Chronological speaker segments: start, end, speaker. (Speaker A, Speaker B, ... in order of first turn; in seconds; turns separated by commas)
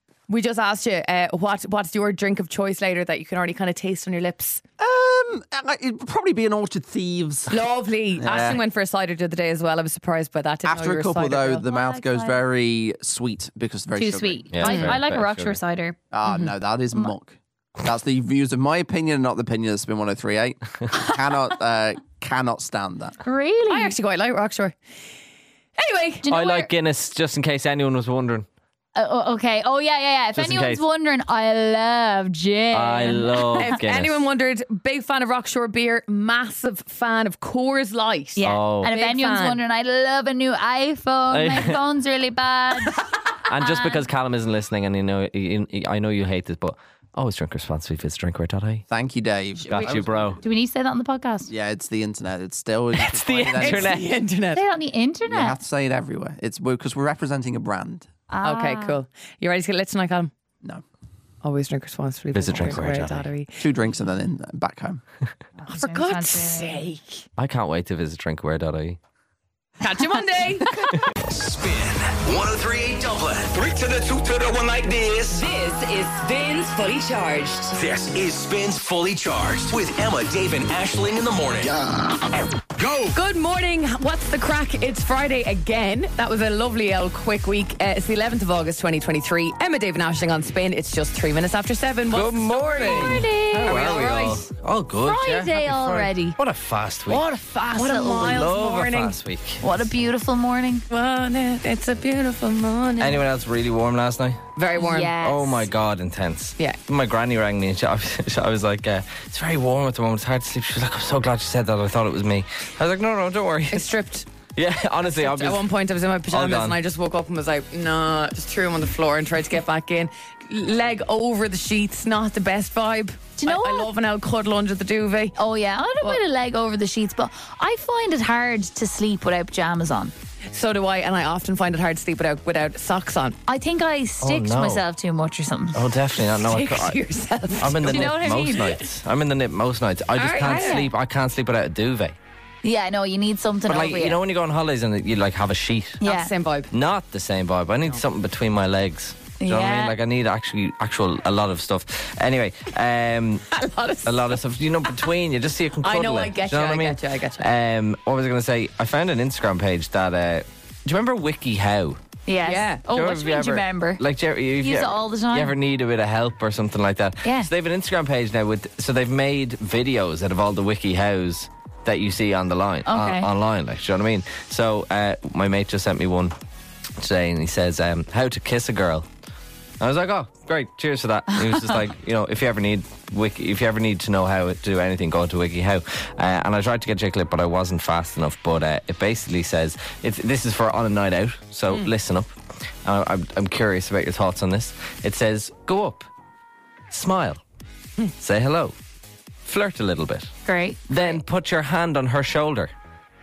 Speaker A: 0.3-4.6, Speaker B: 4.8-7.5, Speaker A: 7.5-11.6, Speaker C: 8.2-8.6, Speaker B: 10.7-14.5, Speaker D: 11.7-12.4, Speaker D: 13.9-17.1, Speaker C: 14.5-15.6, Speaker A: 14.6-15.0, Speaker B: 16.1-23.2, Speaker D: 23.2-23.9, Speaker A: 23.7-24.8, Speaker A: 25.8-26.2, Speaker D: 26.2-26.7, Speaker C: 26.3-28.5, Speaker D: 29.0-33.7, Speaker C: 30.4-30.8, Speaker C: 32.7-34.2, Speaker A: 33.5-39.6, Speaker D: 38.4-43.0, Speaker C: 38.4-38.9, Speaker C: 41.3-41.8, Speaker C: 43.5-48.8, Speaker D: 43.6-44.0, Speaker B: 48.9-50.4, Speaker C: 49.7-50.4, Speaker D: 50.4-51.5, Speaker B: 51.5-53.9, Speaker C: 52.9-54.0, Speaker A: 53.6-54.6, Speaker D: 54.5-55.6, Speaker B: 55.3-58.1, Speaker D: 58.3-59.0, Speaker A: 58.4-60.3, Speaker A: 61.4-63.6, Speaker C: 62.3-63.3, Speaker B: 63.6-65.0, Speaker D: 65.6-66.8, Speaker A: 65.7-67.2, Speaker C: 67.4-69.0, Speaker A: 69.8-70.7, Speaker D: 70.6-70.9, Speaker E: 71.2-75.5, Speaker F: 75.3-77.7, Speaker E: 77.7-82.1, Speaker E: 82.8-83.2, Speaker A: 83.1-94.4, Speaker C: 92.1-97.2, Speaker D: 92.8-94.0, Speaker D: 95.0-96.4, Speaker D: 97.1-98.5, Speaker A: 97.8-99.2, Speaker C: 98.2-99.6, Speaker D: 99.6-100.8, Speaker A: 100.9-103.2, Speaker C: 103.0-104.4, Speaker A: 104.5-105.2, Speaker D: 104.8-105.7, Speaker C: 105.1-113.8, Speaker A: 113.7-114.2, Speaker C: 114.5-115.7, Speaker A: 115.0-125.3, Speaker C: 116.3-116.8, Speaker D: 123.4-123.9, Speaker D: 125.4-130.1, Speaker A: 130.5-133.4, Speaker D: 133.5-135.8, Speaker C: 134.2-134.8, Speaker C: 135.7-137.0, Speaker A: 136.4-138.6, Speaker C: 137.6-142.2, Speaker D: 137.8-138.8, Speaker A: 140.2-140.8, Speaker D: 140.4-140.9, Speaker D: 142.6-144.2, Speaker C: 143.7-146.0, Speaker D: 146.0-146.3, Speaker A: 146.0-146.7, Speaker C: 146.7-153.5, Speaker D: 149.4-150.0, Speaker A: 153.5-154.4, Speaker C: 154.0-162.0, Speaker A: 155.8-157.4, Speaker D: 162.3-164.0, Speaker A: 162.4-162.8, Speaker C: 162.9-176.3, Speaker D: 164.6-165.5, Speaker D: 167.2-167.5, Speaker D: 172.8-173.3, Speaker C: 177.0-179.1, Speaker C: 179.8-196.1, Speaker C: 196.9-197.4, Speaker C: 198.2-198.7, Speaker C: 199.5-200.3, Speaker D: 200.4-200.9, Speaker C: 200.9-202.7